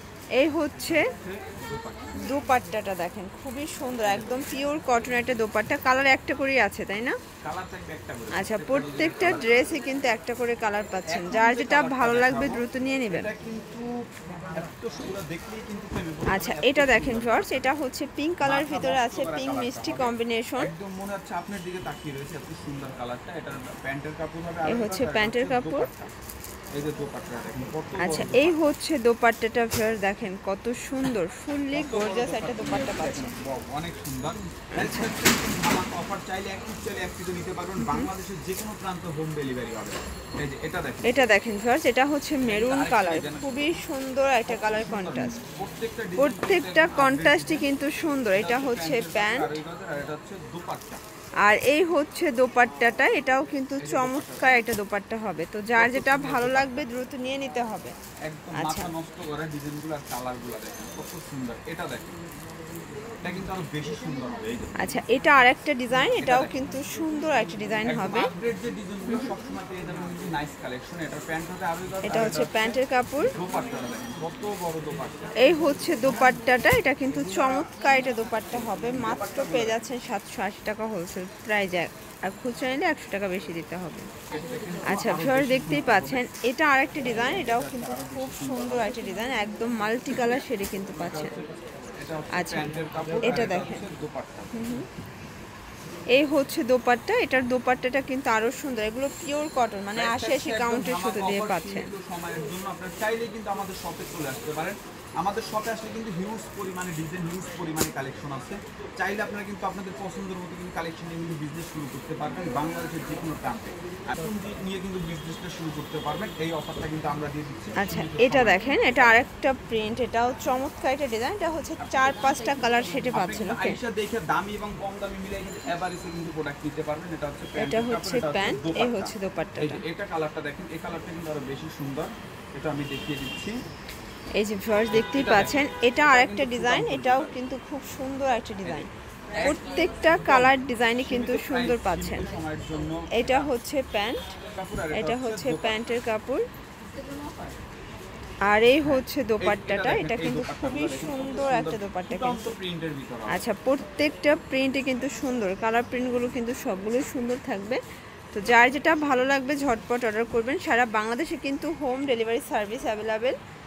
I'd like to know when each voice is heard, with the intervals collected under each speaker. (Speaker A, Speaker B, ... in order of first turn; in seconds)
Speaker A: 0.4-1.1, 2.1-7.2, 8.3-13.3, 16.3-20.7, 24.6-25.9, 28.0-33.4, 34.8-35.1, 37.8-38.1, 41.0-45.4, 46.2-49.6, 51.4-57.9, 58.5-58.9, 64.8-68.3, 72.0-73.3, 75.4-84.1, 84.8-91.3, 92.3-92.7, 93.2-93.8, 94.5-94.8, 96.1-101.9, 117.8-123.8, 127.5-129.8, 134.3-138.9, 139.4-142.3, 143.1-144.3, 144.9-146.4, 148.4-152.6, 153.3-157.8, 158.3-163.3
Speaker B: 1.2-2.3, 4.0-4.4, 7.4-9.7, 11.1-14.0, 14.5-17.7, 18.4-26.1, 26.7-28.7, 31.7-41.2, 42.4-43.8, 44.4-47.7, 48.3-51.0, 53.8-54.7, 55.8-56.9, 58.2-62.2, 63.2-65.0, 66.2-66.6, 67.8-72.8, 73.3-75.3, 77.2-77.7, 78.5-79.8, 84.3-86.2, 86.9-89.0, 90.1-94.8, 99.9-119.2, 121.8-122.4, 123.0-133.6, 134.9-137.4, 138.6-143.5, 144.5-145.8, 148.8-153.4